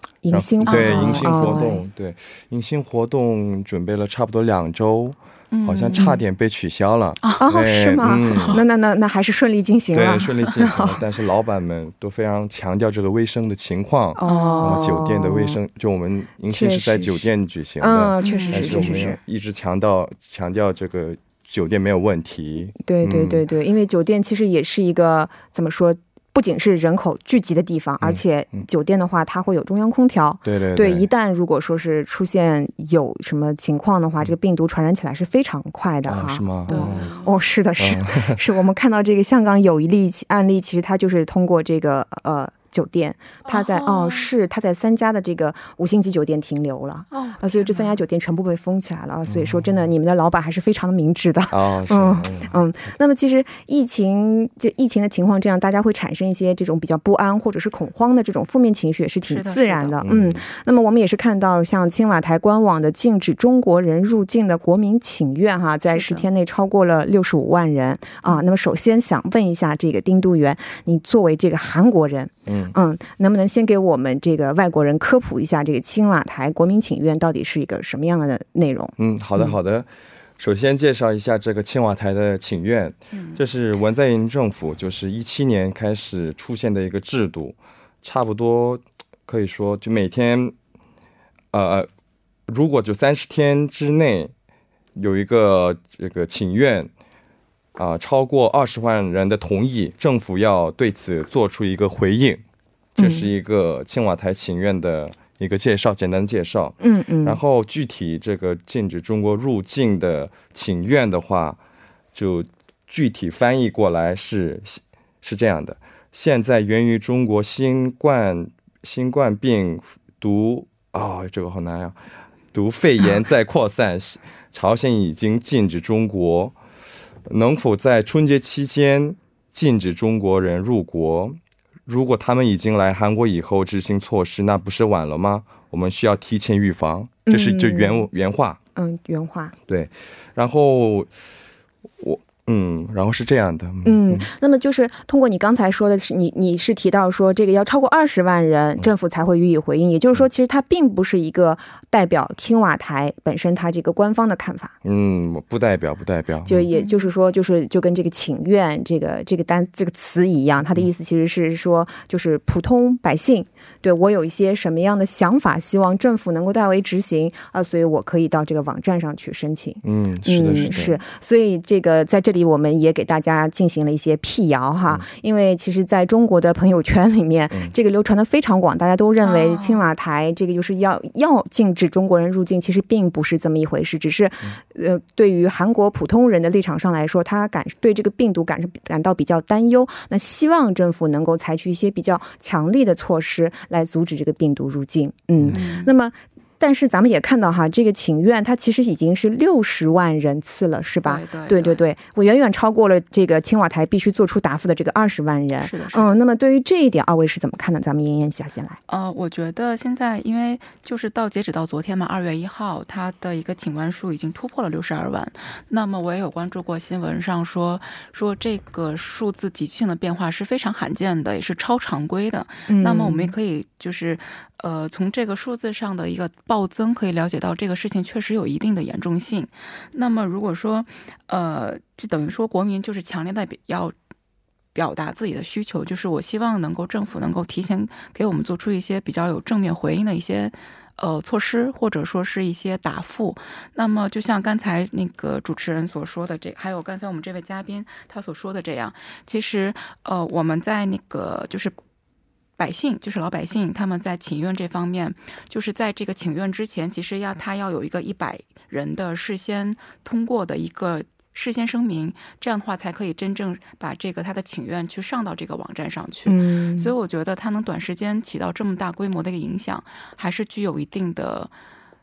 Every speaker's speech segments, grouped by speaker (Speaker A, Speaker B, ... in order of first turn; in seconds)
Speaker A: 0.2-1.8, 7.4-11.0, 14.2-15.6, 16.5-17.3, 17.8-19.2, 22.8-79.5, 103.0-103.3, 106.8-107.4, 137.3-138.1, 138.8-139.6, 143.8-154.7, 156.5-208.8, 222.7-223.3, 266.3-266.9
Speaker B: 0.3-8.6, 9.9-23.4, 28.0-28.6, 30.4-31.1, 36.1-37.1, 37.8-38.4, 49.3-49.8, 51.5-52.5, 60.0-60.4, 72.5-72.8, 79.0-79.9, 80.4-90.5, 91.5-91.9, 92.5-94.3, 95.0-96.9, 97.8-102.4, 103.0-111.6, 112.1-122.0, 122.5-126.6, 127.3-138.6, 139.7-141.1, 142.0-144.3, 154.8-156.7, 169.8-171.0
Speaker C: 0.7-1.8, 5.5-6.2, 8.2-8.6, 14.2-14.9, 18.2-19.0, 36.7-37.4, 43.5-44.3, 47.1-48.0, 59.3-60.0, 65.9-66.3, 83.1-83.4, 156.7-157.1, 179.2-179.8, 195.5-195.9, 201.0-201.8, 205.6-206.2, 208.9-233.9, 234.7-251.7, 252.6-271.5